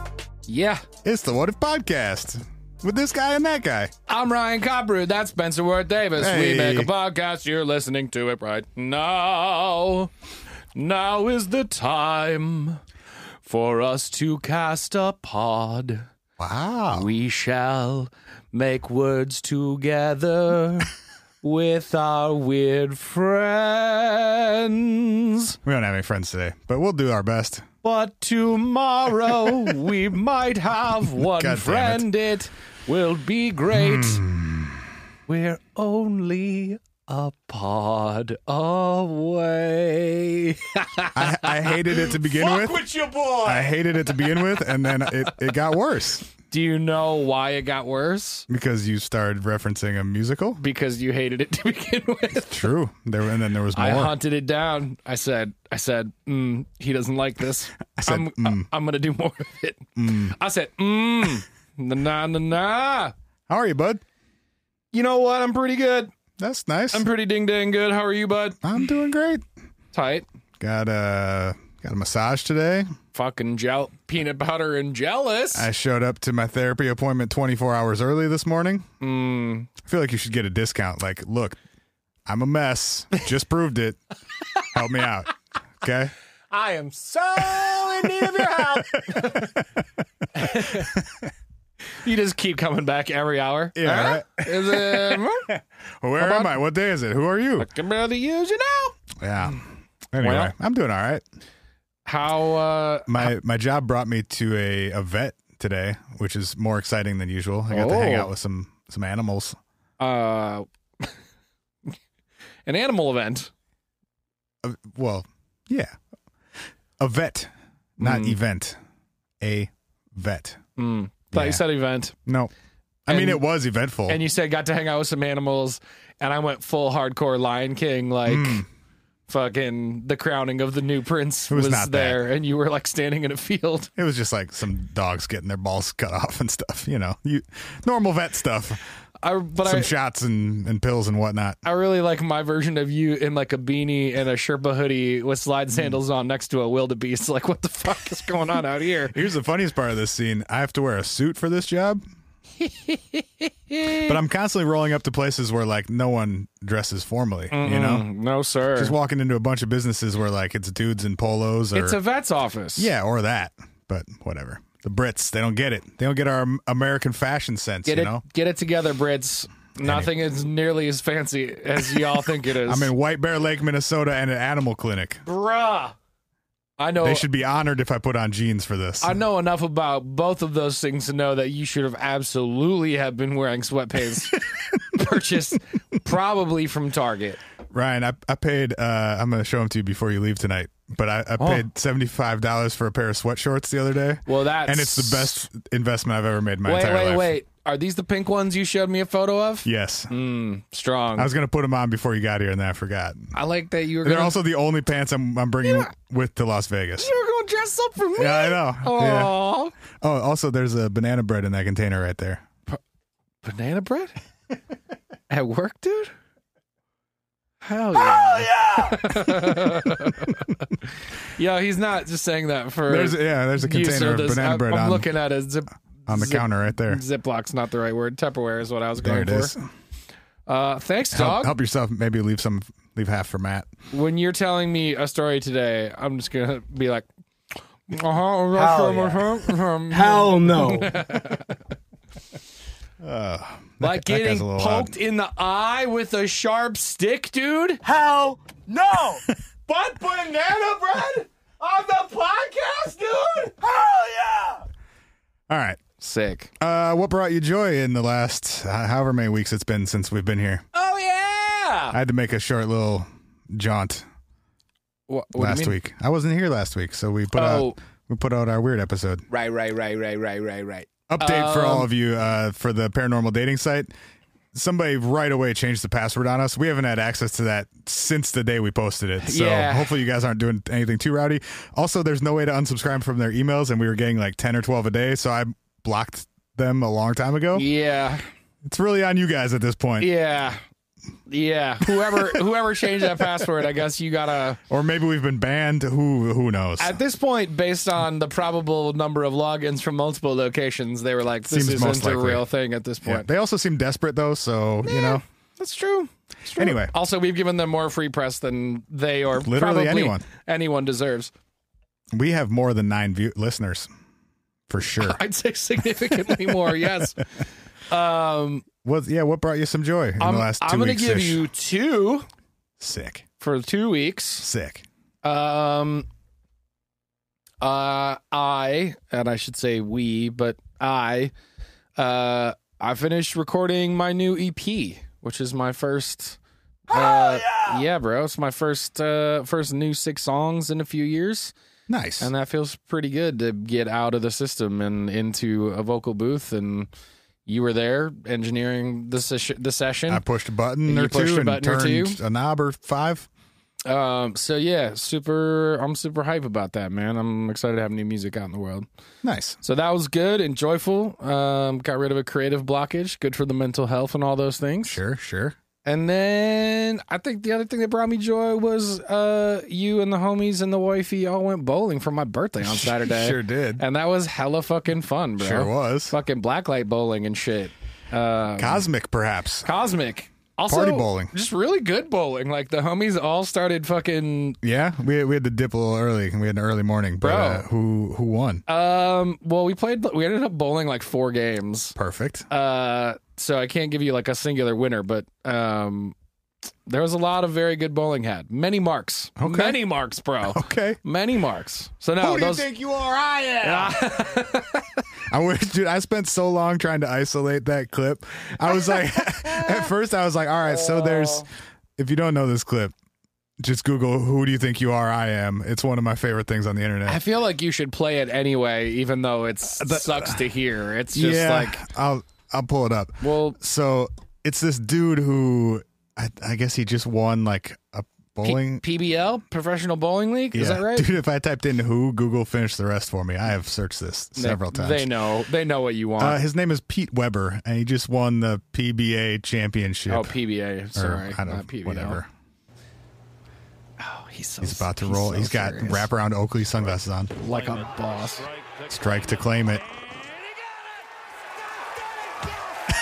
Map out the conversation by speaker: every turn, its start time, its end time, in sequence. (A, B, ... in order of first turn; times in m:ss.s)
0:00.5-0:00.8 A
0:01.0-0:03.9 B
0:04.1-0:10.1 A
0:06.2-0:06.9 B
0:10.7-0:12.8 A
0:13.4-0:16.1 A
0:16.4-0:17.1 B
0:16.9-0:20.9 A
0:21.4-0:25.6 A
0:25.6-0:27.7 B
0:27.8-0:34.2 A
0:31.2-0:32.1 B
0:33.7-0:34.9 B
0:35.3-0:45.3 A
0:41.1-0:42.8 B
0:43.4-0:46.3 B
0:46.5-0:48.5 A
0:48.5-0:50.6 B
0:50.6-0:52.7 A
0:52.5-0:54.2 B
0:53.8-1:03.1 A
0:58.0-0:58.7 B
1:00.0-1:00.3 B
1:03.5-1:04.0 B
1:04.9-1:06.1 A
1:06.4-1:07.1 B
1:06.9-1:08.6 A
1:08.6-1:09.4 B
1:09.9-1:10.3 A
1:10.6-1:12.9 B
1:13.1-1:15.7 A
1:15.5-1:18.9 B
1:19.0-1:19.7 A
1:19.8-1:21.6 B
1:22.3-1:24.0 B
1:24.6-1:26.1 B
1:26.5-1:29.5 A
1:27.5-1:29.8 B
1:30.3-1:30.9 A
1:30.4-1:31.3 B
1:32.0-1:35.5 A
1:33.8-1:37.7 B
1:36.2-1:36.5 A
1:37.6-1:39.0 A
1:39.2-1:41.2 B
1:40.2-1:40.5 A
1:42.1-1:43.3 A
1:43.1-1:49.6 B
1:47.7-1:48.3 A
1:50.0-1:51.2 A
1:52.7-1:53.5 A
1:54.6-1:55.9 B
1:57.0-1:58.8 B
1:58.0-1:58.4 A
1:59.4-2:00.6 B
2:00.8-2:02.2 A
2:01.3-2:01.6 B
2:02.3-2:02.5 B
2:03.1-2:04.2 B
2:03.1-2:03.4 A
2:04.1-2:08.6 A
2:08.3-2:08.6 B
2:09.3-2:13.9 A
2:11.5-2:12.3 B
2:14.0-2:18.8 B
2:19.2-2:19.9 A
2:19.6-2:21.6 B
2:21.6-2:29.2 A
2:29.1-2:32.0 B
2:32.6-2:34.2 A
2:33.9-2:38.0 B
2:37.5-2:39.0 A
2:38.8-2:42.0 B
2:41.7-2:42.9 A
2:42.8-2:48.2 B
2:47.9-2:52.9 A
2:49.8-2:50.1 B
2:52.6-2:55.2 B
2:55.2-2:56.0 A
2:56.8-2:57.3 A
2:57.0-2:59.2 B
2:59.0-3:07.4 A
3:07.7-3:17.3 B
3:11.4-3:11.6 A
3:14.3-3:15.5 A
3:16.6-3:21.3 A
3:19.6-3:20.1 B
3:21.2-3:23.3 B
3:23.3-3:24.4 A
3:24.0-3:27.1 B
3:25.6-3:25.9 A
3:27.0-3:29.7 A
3:28.2-3:29.4 B
3:29.9-3:32.4 B
3:33.4-3:34.1 A
3:35.3-3:36.1 A
3:37.6-3:49.5 A
3:42.9-3:45.1 B
3:46.1-3:47.0 B
3:49.0-3:49.6 B
3:50.5-3:51.5 A
3:51.1-3:53.7 B
3:53.9-3:57.1 A
3:57.9-4:01.6 A
3:58.5-3:59.4 C
3:59.9-4:01.0 C
4:03.0-4:04.9 B
4:03.8-4:07.8 A
4:07.8-4:09.3 C
4:09.7-4:13.6 A
4:13.6-4:14.6 C
4:15.5-4:15.8 B
4:16.0-4:16.5 A
4:16.6-4:20.6 B
4:20.7-4:22.0 A
4:21.9-4:24.0 B
4:25.1-4:25.8 A
4:25.4-4:29.3 B
4:27.3-4:27.8 A
4:29.3-4:31.9 A
4:31.1-4:33.9 B
4:34.5-4:47.6 B
4:39.2-4:40.0 A
4:47.6-4:48.2 A
4:48.6-4:50.1 B
4:50.0-4:50.6 A
4:51.3-4:54.6 A
4:51.9-4:52.4 B
4:54.7-4:57.0 B
4:56.8-5:03.3 A
5:01.5-5:02.5 B
5:03.0-5:05.2 B
5:04.8-5:11.3 A
5:06.6-5:06.9 B
5:09.4-5:10.2 B
5:12.1-5:13.9 B
5:14.7-5:15.2 B
5:15.0-5:17.2 A
5:16.5-5:17.0 B
5:17.9-5:18.7 A
5:18.8-5:21.4 B
5:20.2-5:22.3 A
5:22.8-5:23.2 B
5:23.4-5:24.5 A
5:24.4-5:24.9 B
5:25.2-5:26.1 A
5:27.6-5:31.3 A
5:32.0-5:36.4 A
5:36.9-5:41.5 A
5:37.0-5:37.4 C
5:41.9-5:42.3 B
5:42.2-5:46.9 A
5:47.5-5:50.2 A
5:50.1-5:53.3 B
5:50.9-5:52.2 A
5:53.9-5:58.9 A
5:59.2-5:59.6 B
5:59.6-6:05.0 A
6:04.9-6:05.6 B
6:05.8-6:18.8 A
6:12.6-6:13.8 B
6:15.4-6:16.1 B
6:18.6-6:19.7 B
6:19.6-6:24.6 A
6:20.7-6:21.3 B
6:24.6-6:28.6 B
6:27.2-6:27.7 A
6:28.7-6:32.0 A
6:32.0-6:32.5 B
6:32.5-6:36.2 A
6:36.9-6:42.7 A
6:39.4-6:39.8 B
6:40.5-6:41.0 B
6:42.2-6:44.1 B
6:43.6-6:45.0 A
6:45.3-6:51.5 B
6:50.7-6:51.5 A
6:52.0-6:52.9 B
6:53.6-6:57.2 B
6:57.1-7:01.8 A
6:59.8-7:00.4 B
7:01.1-7:08.8 B
7:03.2-7:03.6 A
7:08.4-7:11.1 A
7:10.5-7:15.1 B
7:14.4-7:16.4 A
7:16.2-7:20.4 B
7:20.1-7:22.2 A
7:21.0-7:22.3 B
7:24.0-7:26.1 A
7:24.6-7:27.4 B
7:27.4-7:28.5 A
7:28.9-7:29.8 B